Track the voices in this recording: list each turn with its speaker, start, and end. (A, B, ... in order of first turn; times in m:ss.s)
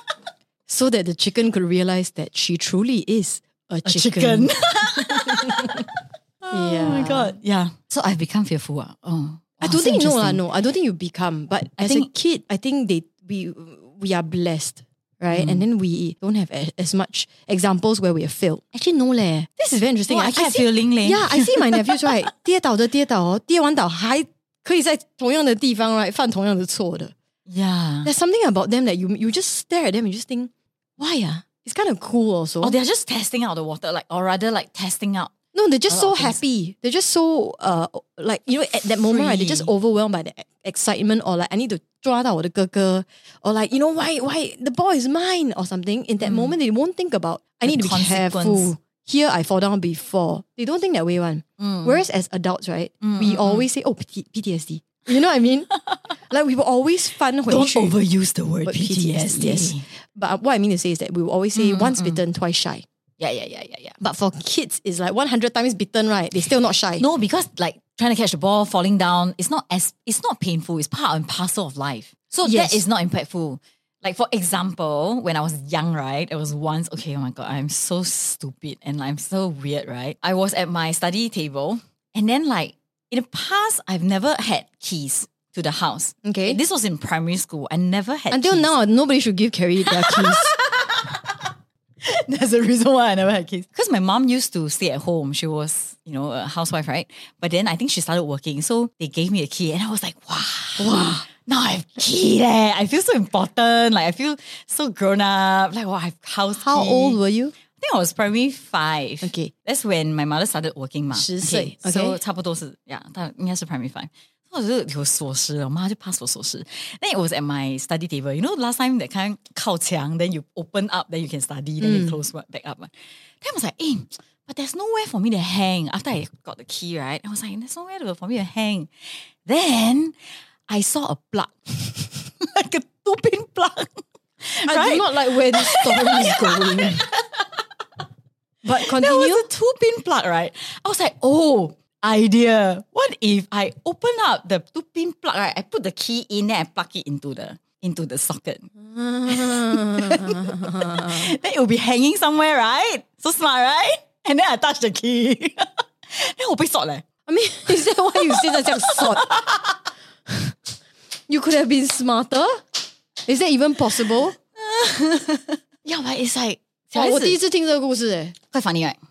0:00.7-0:05.8 A
0:03.8-0:10.4 B
0:06.5-0:07.3 A
0:09.6-0:27.1 A
0:11.8-0:12.1 B
0:15.3-0:15.6 B
0:20.1-0:22.1 B
0:27.5-0:28.1 B
0:28.0-0:32.8 A
0:32.6-0:35.3 B
0:35.5-0:55.7 A
0:35.9-0:36.4 B
0:39.0-0:39.7 B
0:46.2-0:46.6 B
0:47.6-0:48.7 B
0:51.6-0:52.0 B
0:53.0-0:53.6 B
0:56.3-0:57.9 A
0:57.5-0:59.8 B
0:58.6-1:02.8 A
1:01.5-1:02.2 B
1:03.2-1:04.0 B
1:04.0-1:07.0 A
1:07.0-1:28.7 B
1:12.4-1:12.8 A
1:26.2-1:26.6 A
1:28.3-1:30.5 A
1:29.9-1:31.5 B
1:32.0-1:47.2 B
1:40.8-1:41.2 A
1:46.6-1:47.5 A
1:47.7-2:10.1 B
1:49.2-1:49.5 A
1:51.1-1:52.2 A
2:01.8-2:02.2 A
2:10.7-2:17.6 B
2:14.6-2:17.1 A
2:18.6-2:19.4 A
2:18.8-2:28.7 B
2:28.8-2:31.3 A
2:29.3-2:37.0 B
2:37.3-2:39.4 A
2:38.3-2:39.7 B
2:41.3-2:42.6 A
2:43.2-2:44.4 A
2:44.6-2:47.4 B
2:46.9-2:48.4 A
2:48.5-2:49.0 B